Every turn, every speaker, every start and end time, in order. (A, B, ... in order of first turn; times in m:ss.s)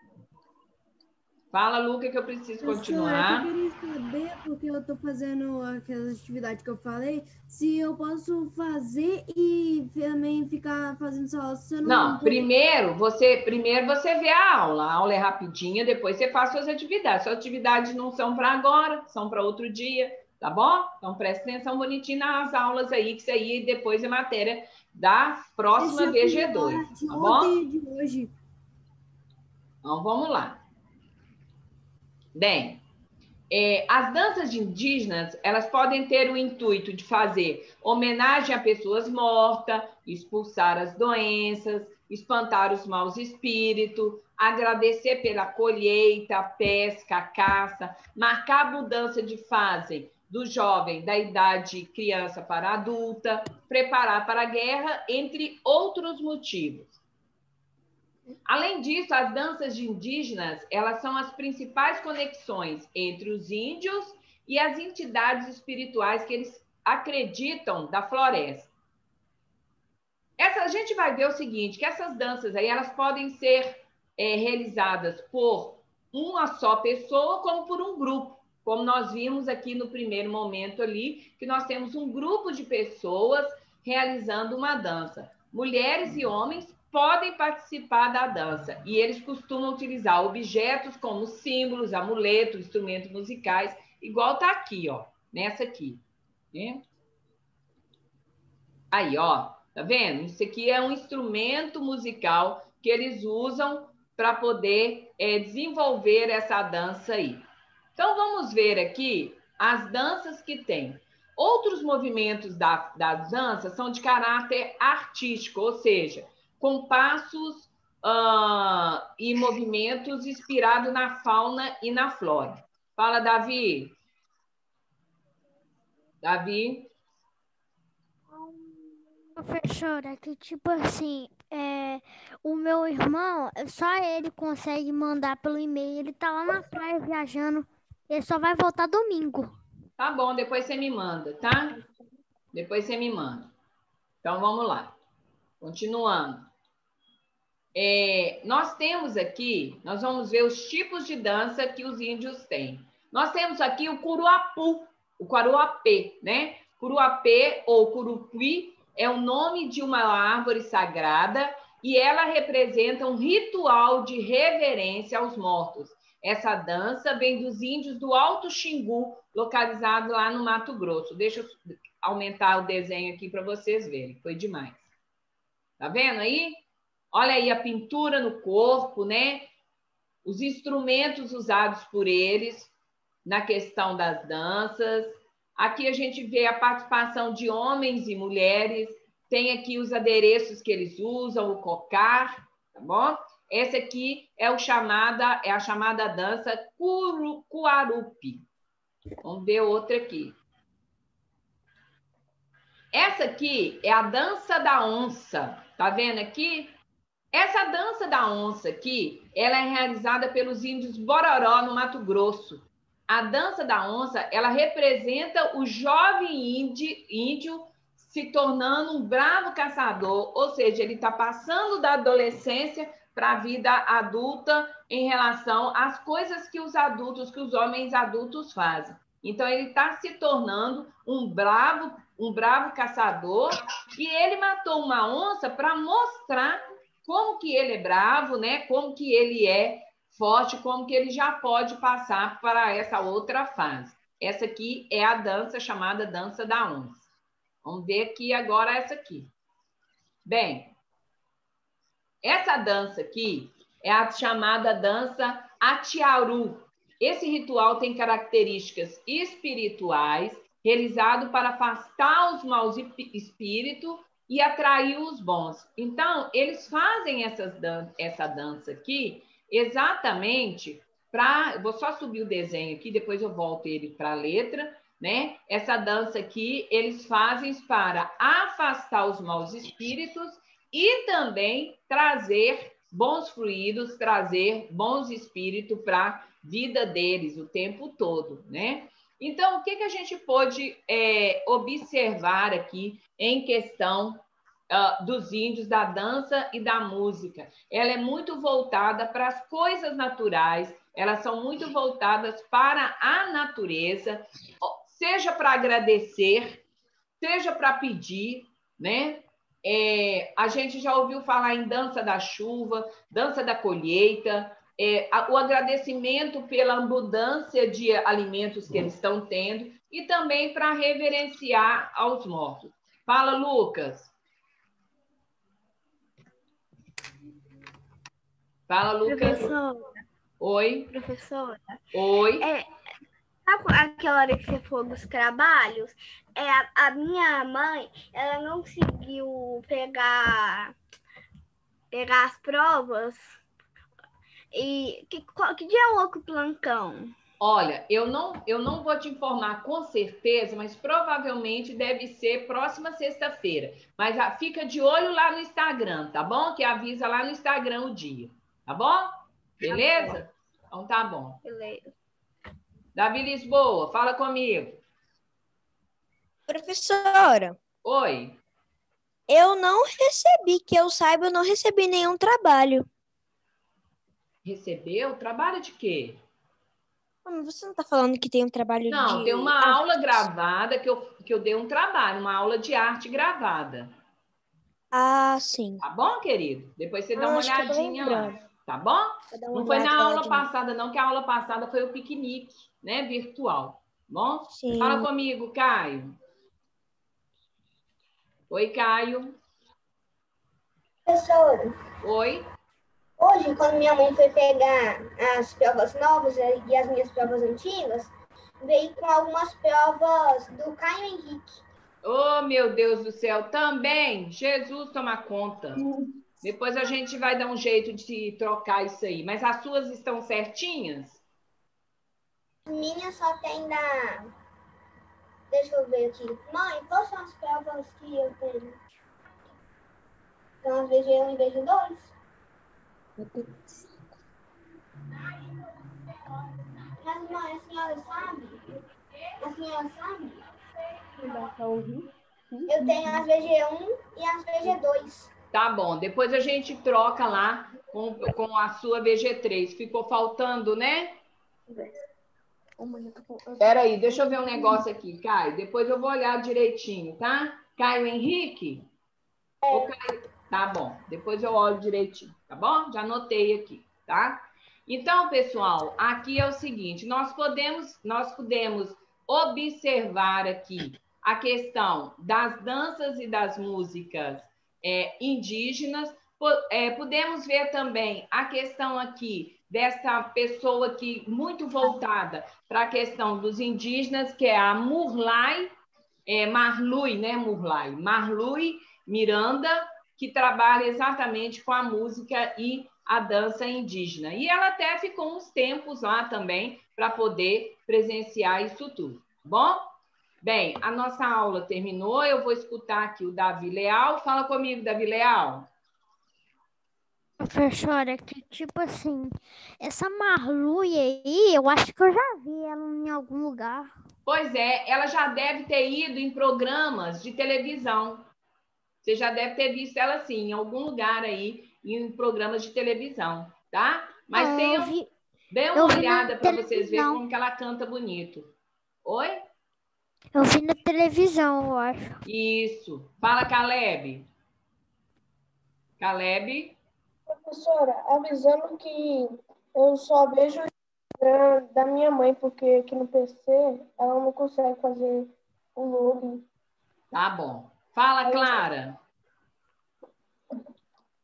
0:01.5-0:03.5 A
0:02.6-0:12.5 B
0:11.8-0:27.5 A
0:25.8-0:28.3 B
0:29.8-0:30.6 A
0:32.3-0:32.8 A
0:33.5-0:57.0 A
0:58.4-1:08.7 A
1:10.4-1:36.8 A
1:38.9-1:47.4 A
1:48.0-2:04.0 A
2:06.2-2:06.9 A
2:09.4-2:19.5 C
2:20.0-2:21.8 A
2:22.5-2:23.5 A
2:24.2-2:25.0 A
2:25.6-2:26.5 A
2:27.7-2:54.9 A
2:55.8-2:59.5 A
3:00.2-3:02.7 A
3:03.2-3:18.4 A
3:19.2-3:20.4 A
3:22.9-3:26.7 A
3:27.3-4:07.1 A
4:07.6-4:09.3 A
4:10.2-4:10.7 A
4:12.2-5:06.6 A
5:07.2-5:24.1 A
5:28.7-5:29.5 A
5:29.0-5:30.0 D
5:30.4-5:30.9 A
5:30.9-5:31.8 D
5:31.9-5:32.5 A
5:32.4-5:32.7 D
5:33.4-5:40.7 D
5:41.9-5:43.3 D
5:44.5-5:47.1 D
5:47.4-5:59.1 A
5:59.6-6:01.4 A
6:01.4-6:01.9 D
6:02.9-6:04.8 A
6:06.5-6:07.6 E
6:07.8-6:08.4 A
6:09.3-6:12.9 E
6:14.4-6:16.2 A
6:17.2-6:20.2 E
6:18.9-6:23.9 A
6:24.9-6:25.8 E
6:25.8-6:36.2 A
6:27.2-6:28.4 E
6:29.3-6:30.4 E
6:34.5-6:35.1 E
6:38.5-6:39.4 A
6:41.1-6:41.6 F
6:42.0-6:42.5 A
6:43.2-6:48.0 F
6:48.6-6:51.4 F
6:52.0-6:55.8 A
6:56.4-7:01.2 A
7:02.7-7:03.9 F
7:05.5-7:08.5 F
7:10.6-7:11.9 F
7:17.0-7:18.4 F
7:19.5-7:20.2 F
7:21.4-7:22.0 G
7:22.7-7:25.2 F
7:25.5-7:31.2 A
7:32.8-7:33.7 G
7:33.6-7:38.9 A
7:39.7-8:05.7 A
8:06.3-8:19.8 A
8:20.4-8:25.7 A
8:27.4-8:33.9 C
8:34.2-8:38.2 A
8:39.0-8:44.9 A
8:44.3-8:45.1 C
8:45.5-8:48.5 A
8:45.7-8:47.2 C
8:49.0-8:49.4 A
8:50.3-8:52.1 C
8:52.2-8:54.3 A
8:56.0-8:56.8 A
8:57.3-9:06.4 G
9:07.1-9:09.0 A
9:08.2-9:08.6 G